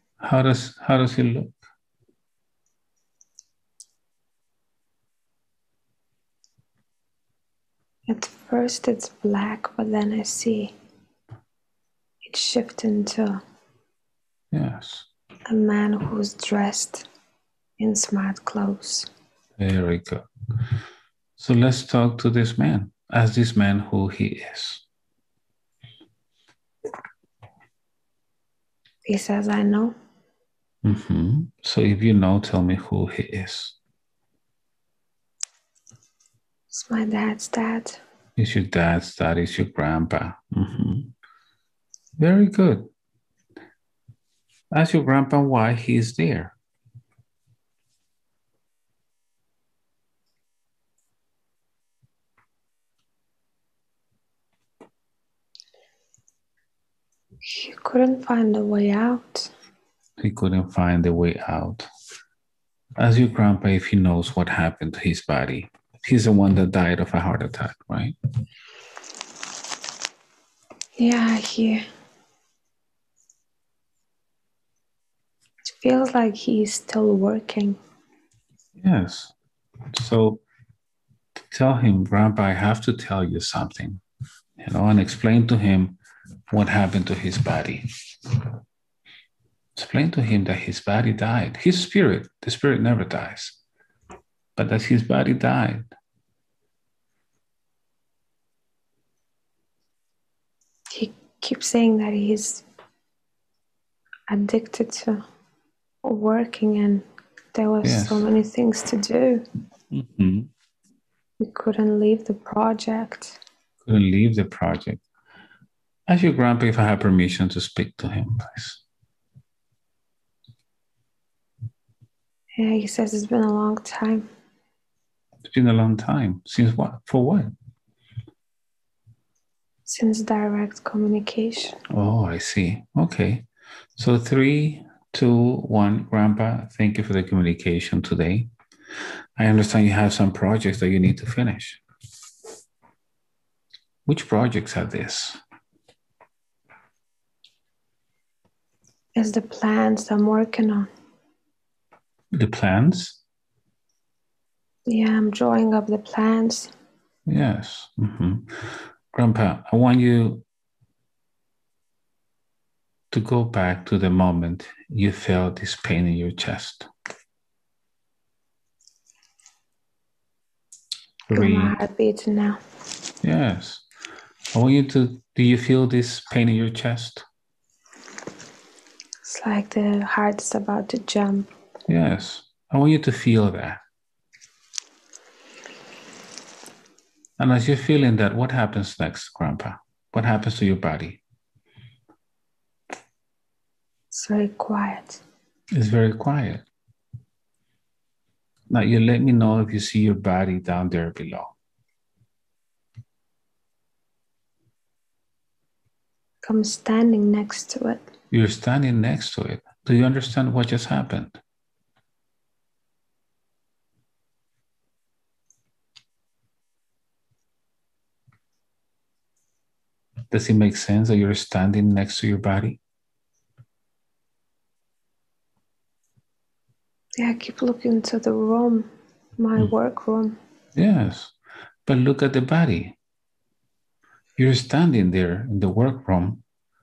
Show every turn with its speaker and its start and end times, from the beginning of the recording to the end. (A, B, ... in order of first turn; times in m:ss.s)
0:00.2-0:01.6 A
0:08.1-0:10.7 B
0:12.2-0:13.4 B
0:14.5-0:15.1 A
0:15.5-0:17.0 B
0:17.8-0:19.1 B
0:19.6-0:20.2 A
0:21.4-0:24.8 A
0:29.0-0:29.9 B
0:30.8-0:33.8 A
0:36.7-0:38.0 B
0:38.4-0:41.1 A
0:42.2-0:42.9 A
0:44.7-0:46.5 A
0:57.4-0:59.5 B
1:00.2-1:01.9 A
1:03.0-1:08.1 A
1:11.0-1:11.8 B
1:15.6-1:17.8 B
1:18.8-1:19.3 A
1:19.9-1:20.4 A
1:21.5-1:24.0 A
1:24.6-1:26.0 A
1:26.5-1:28.5 A
1:29.8-1:33.6 A
1:34.6-1:35.9 A
1:40.9-1:42.6 B
1:44.3-1:45.2 B
1:46.0-1:49.4 B
1:47.8-1:48.3 A
1:49.9-1:50.5 A
1:51.4-1:53.4 B
1:53.8-1:55.0 A
1:56.1-1:58.8 A
2:02.6-2:04.2 B
2:05.4-2:07.5 A
2:09.8-2:11.8 B
2:11.9-2:18.5 A
2:19.4-2:21.8 A
2:24.0-2:25.4 A
2:29.2-2:30.9 B
2:32.3-2:33.2 A
2:34.9-2:36.7 B
2:37.3-2:40.4 A
2:43.1-2:46.9 A
2:51.3-2:51.8 A
2:51.3-2:52.6 B
2:53.2-2:53.8 A
2:54.5-2:57.2 A
2:59.2-3:01.5 B
3:01.9-3:03.8 A
3:07.4-3:11.2 A
3:14.1-3:15.2 B
3:15.7-3:16.6 A
3:18.7-3:21.5 A
3:26.4-3:28.0 B
3:28.3-3:31.4 A
3:40.3-3:42.8 A
3:47.2-3:50.4 B
3:50.7-3:51.3 A
3:51.8-3:53.0 A
3:54.4-3:56.4 A